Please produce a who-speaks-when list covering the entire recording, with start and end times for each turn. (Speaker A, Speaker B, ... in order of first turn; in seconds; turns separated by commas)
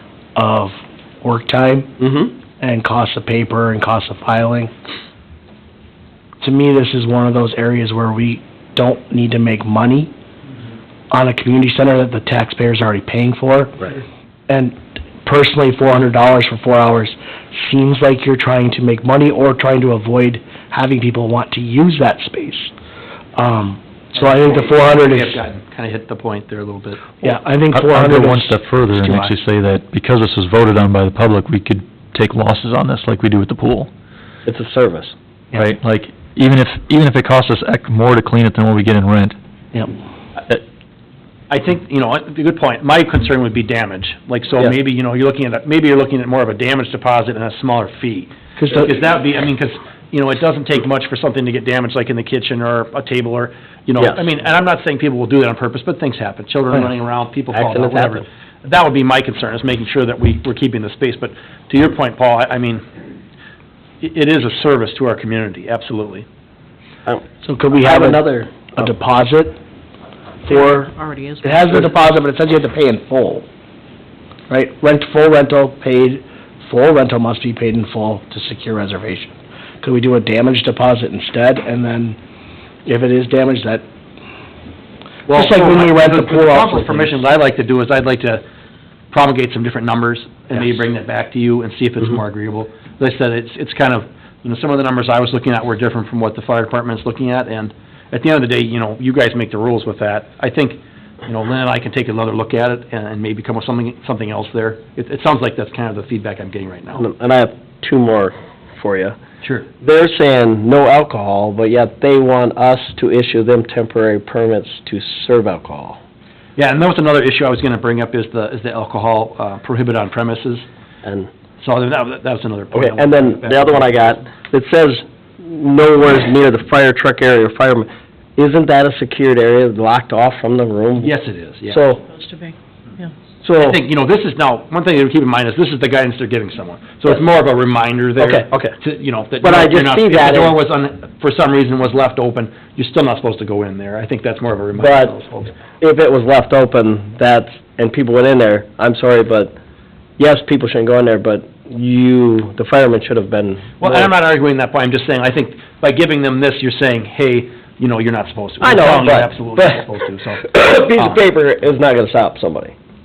Speaker A: 0.3-2.0, Speaker B: 2.0-2.3, Speaker A: 2.6-4.7, Speaker A: 6.4-10.1, Speaker A: 11.1-22.7, Speaker A: 23.4-25.4, Speaker C: 24.2-27.3, Speaker A: 27.2-29.3, Speaker D: 27.7-33.9, Speaker B: 34.5-35.1, Speaker D: 35.5-39.4, Speaker C: 41.5-62.9, Speaker A: 48.6-48.9, Speaker B: 57.5-58.2, Speaker C: 64.0-66.2, Speaker A: 67.4-69.6, Speaker B: 67.8-68.8, Speaker A: 70.4-70.9, Speaker E: 70.5-71.9, Speaker A: 71.4-73.5, Speaker A: 74.5-82.2, Speaker A: 82.8-83.8, Speaker A: 85.3-87.2, Speaker C: 85.3-88.4, Speaker C: 89.1-107.1, Speaker B: 107.0-109.2, Speaker B: 109.8-116.0, Speaker C: 116.6-120.7, Speaker B: 121.0-121.3, Speaker C: 121.6-124.2, Speaker B: 122.7-131.1, Speaker C: 131.0-131.8, Speaker B: 131.7-132.0, Speaker E: 132.0-133.1, Speaker B: 133.4-133.8, Speaker C: 133.6-145.6, Speaker B: 138.2-138.7, Speaker B: 139.4-140.6, Speaker B: 144.8-145.2, Speaker B: 145.8-149.6, Speaker B: 150.2-154.1, Speaker C: 153.8-161.2, Speaker B: 158.6-159.8, Speaker B: 160.4-162.7